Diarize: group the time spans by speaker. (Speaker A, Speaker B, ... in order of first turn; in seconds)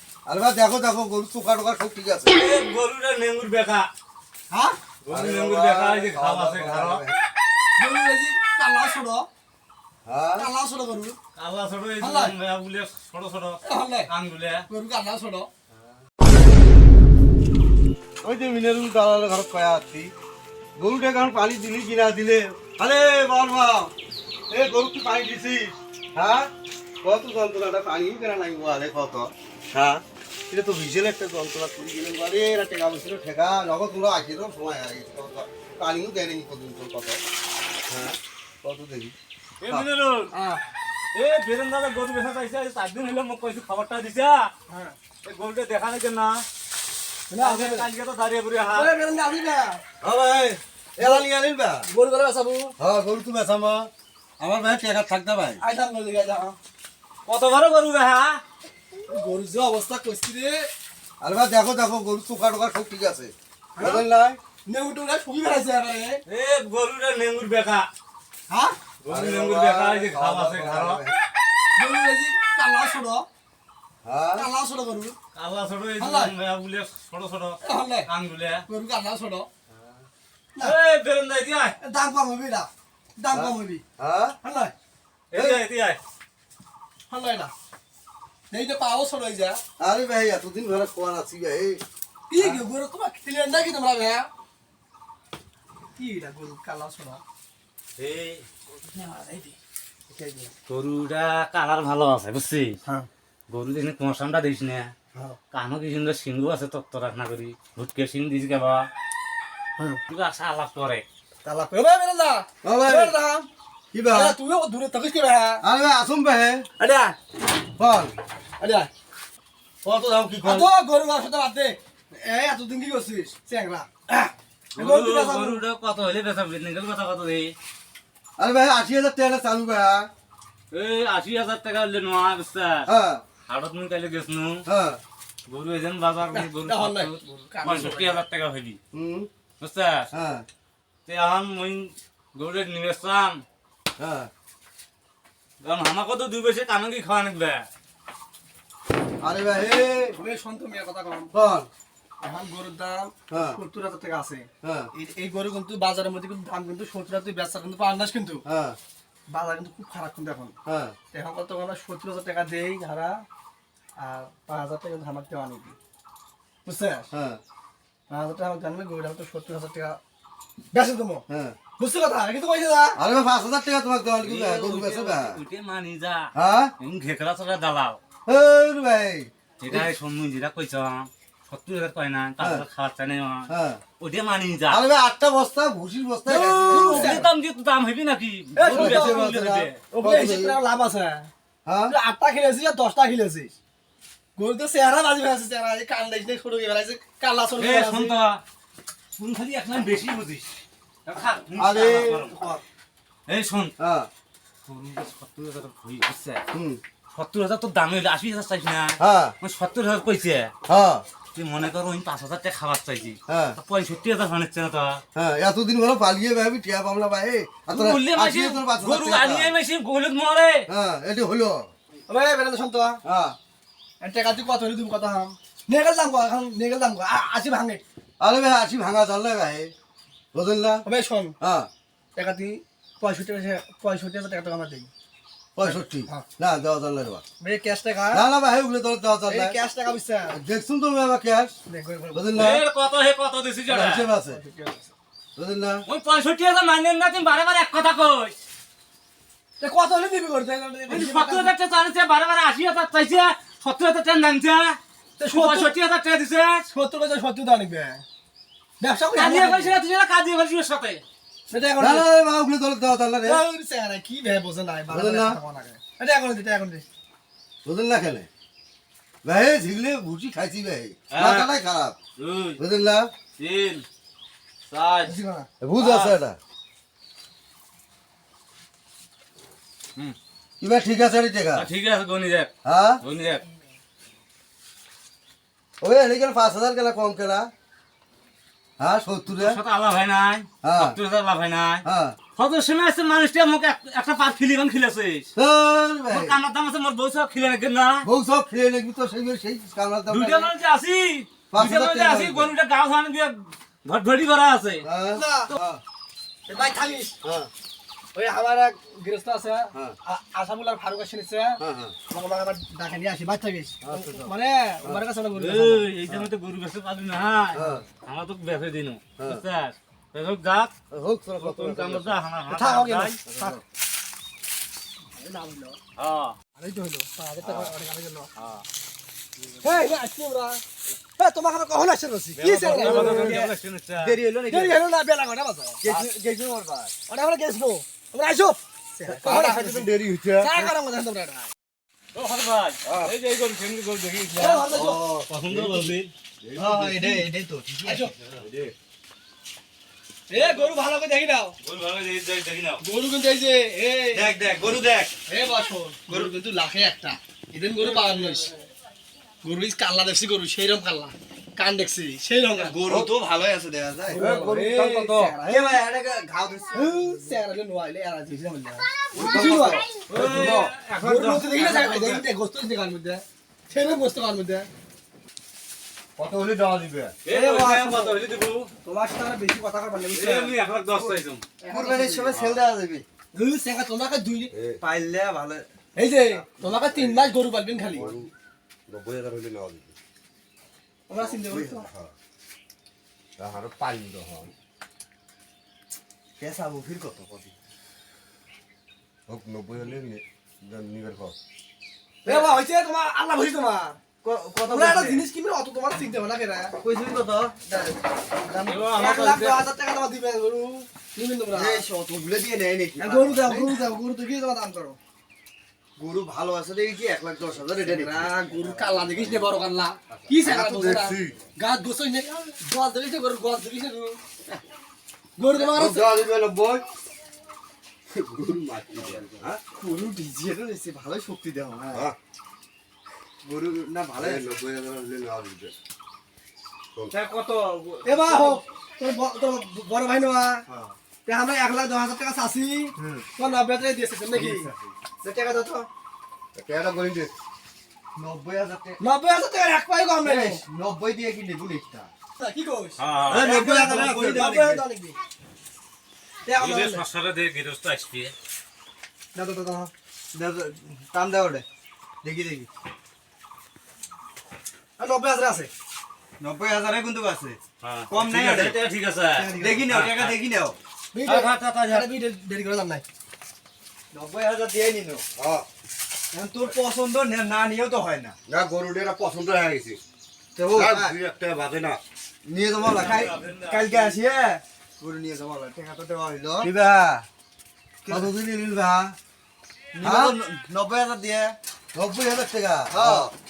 Speaker A: 0.2-2.4, 5.1-7.2, 10.0-10.5, 18.2-20.1, 20.8-23.9, 24.5-26.5, 27.0-37.2, 37.9-39.1, 50.0-51.9, 52.8-55.6, 61.2-64.4, 69.1-71.2, 74.0-74.5, 83.3-84.3, 85.3-85.6, 89.8-91.8, 92.4-92.6, 112.6-113.1, 113.9-114.4, 115.6-116.7, 117.8-118.1, 119.8-120.7, 128.4-130.1, 132.8-133.2, 134.7-135.0, 138.9-139.3, 140.1-140.4, 144.0-144.3, 149.2-150.1, 151.3-151.7, 153.3-153.6, 154.6-154.9, 158.4-158.8, 160.7-160.9, 167.1-167.4, 171.3-171.6, 172.9-175.4, 176.3-176.7, 178.2-179.9, 182.4-182.6, 183.5-183.8, 184.7-187.2, 188.7-190.6, 191.6-191.9, 201.6-202.5, 203.8-204.1, 206.5-206.8, 209.0-209.3, 210.7-211.0, 213.3-213.6, 215.1-219.5, 220.7-221.7, 223.0-223.4, 228.2-229.7, 230.3-230.8, 231.4-231.7, 235.6-237.2, 238.1-239.6, 240.3-241.5, 242.1-242.6, 243.7-244.4, 245.3-245.8, 261.8-263.4, 264.9-265.4, 267.6-268.3, 269.2-271.9, 272.6-273.1, 275.6-276.4, 280.6-281.7, 282.6-283.0, 285.8-287.5, 288.8-289.6, 290.6-291.0, 291.8-292.2, 295.3-296.4, 298.0-300.5, 301.5-302.5, 304.8-305.8, 307.2-307.5, 311.6-311.9, 313.8-315.0, 317.5-317.8, 319.2-319.4, 320.9-322.2, 323.2-323.6, 332.7-333.4, 339.1-340.7, 342.8-343.1, 344.7-347.3, 348.4-348.7, 364.1-365.3, 369.1-370.7, 376.2-377.1, 382.0-382.6, 384.5-384.8, 386.6-387.3, 387.9-388.3, 388.9-389.9, 391.2-392.1, 393.4-394.5, 399.3-401.3, 417.6-418.3, 420.1-421.4, 425.6-426.8, 428.1-429.6, 431.9-432.1, 434.2-435.8, 446.5-447.3, 453.3-454.6, 475.4-475.7, 478.5-480.0, 480.6-483.4, 486.6-487.2, 488.1-489.1, 490.0-490.4, 491.9-493.3
Speaker B: 2.3-3.9, 5.0-7.0, 11.3-14.6, 39.6-40.3, 41.1-44.5, 45.2-46.4, 47.4-48.9, 57.2-58.4, 66.3-67.9, 69.0-71.0, 75.3-78.6, 80.6-81.8, 85.3-86.0, 98.0-98.5, 100.7-102.8, 103.5-104.9, 105.5-108.9, 110.1-111.0, 124.8-127.5, 130.7-132.9, 133.5-134.6, 135.5-138.8, 139.6-140.1, 141.1-143.4, 145.6-147.7, 174.2-178.0, 179.6-184.8, 186.3-189.8, 197.6-198.4, 199.2-200.5, 201.0-202.3, 203.3-203.7, 204.7-206.4, 207.1-210.5, 211.3-215.0, 217.7-220.7, 242.4-244.1, 245.8-248.3, 250.9-254.8, 255.3-256.6, 259.1-261.0, 271.1-271.5, 272.2-272.6, 273.4-273.8, 274.7-275.1, 275.8-276.1, 281.5-283.4, 289.3-291.8, 292.4-295.3, 296.1-298.1, 300.1-304.9, 315.4-320.7, 321.4-323.2, 326.0-326.4, 327.4-327.7, 328.4-328.6, 332.4-334.2, 342.1-346.1, 350.4-350.8, 351.6-352.8, 370.1-372.2, 377.2-378.7, 380.1-381.4, 408.6-409.7, 453.0-453.5, 456.6-458.3, 467.8-470.4, 471.2-472.1, 482.8-484.1
Speaker C: 4.5-4.8, 7.8-9.3, 10.4-11.2, 12.0-12.3, 13.6-14.1, 14.7-15.5, 40.3-40.6, 44.7-45.0, 47.3-47.9, 48.7-49.8, 51.0-51.2, 51.9-52.7, 55.6-56.5, 59.1-60.7, 63.8-64.0, 64.7-66.2, 68.5-68.8, 71.8-73.2, 74.4-75.2, 76.0-76.3, 77.6-78.1, 78.7-79.5, 81.8-83.8, 84.4-84.7, 87.1-87.5, 88.5-89.6, 92.3-94.3, 96.0-97.2, 98.7-99.5, 100.1-100.5, 111.4-113.5, 114.1-115.6, 116.8-117.1, 118.6-118.9, 120.4-125.6, 136.3-138.2, 150.2-151.3, 152.2-158.4, 159.3-160.5, 161.1-163.2, 164.0-165.8, 166.6-167.1, 168.1-170.0, 170.7-171.2, 171.8-173.0, 186.3-187.2, 188.6-189.3, 189.9-191.3, 191.9-193.6, 194.4-198.2, 222.1-223.0, 224.0-227.8, 230.8-231.3, 232.2-234.9, 235.6-236.2, 237.4-238.2, 239.3-240.4, 241.7-242.5, 244.2-244.9, 249.6-251.5, 255.2-255.7, 256.7-258.0, 258.8-259.8, 261.5-262.1, 263.2-266.8, 275.0-275.5, 305.1-305.5, 306.5-307.1, 308.1-315.9, 322.5-323.6, 325.1-325.8, 326.5-328.3, 329.6-330.6, 331.2-333.5, 334.5-335.8, 337.1-341.5, 344.3-345.1, 347.8-348.1, 350.3-351.6, 352.8-354.3, 355.3-358.5, 359.4-362.8, 364.1-365.8, 366.7-374.7, 377.3-378.2, 378.8-380.5, 381.6-382.1, 383.3-384.5, 385.9-388.2, 391.1-391.9, 402.2-404.0, 404.6-406.8, 408.9-411.8, 413.0-415.0, 417.8-424.2, 425.4-426.1, 438.0-440.6, 441.2-445.9, 449.0-450.6, 452.4-455.2, 456.4-457.0, 459.3-459.9, 465.0-465.7, 471.1-473.0
Speaker D: 332.8-333.4, 334.0-334.8, 335.8-336.9, 346.6-348.1, 354.1-355.1, 362.6-367.3, 381.7-383.0, 384.8-385.7, 396.4-397.5, 402.2-402.6, 404.2-405.3, 406.8-408.9, 411.5-413.8, 416.0-419.3, 429.8-432.1, 433.4-434.4, 437.1-438.6, 440.7-440.9, 444.3-444.9, 448.1-449.0, 450.2-452.1, 453.3-454.8, 460.3-461.6, 462.2-462.7, 466.4-467.6, 468.1-468.8, 469.4-470.8, 474.1-475.2, 476.3-478.4, 480.6-481.2, 482.9-486.7, 488.0-488.3, 489.9-491.6, 492.9-493.3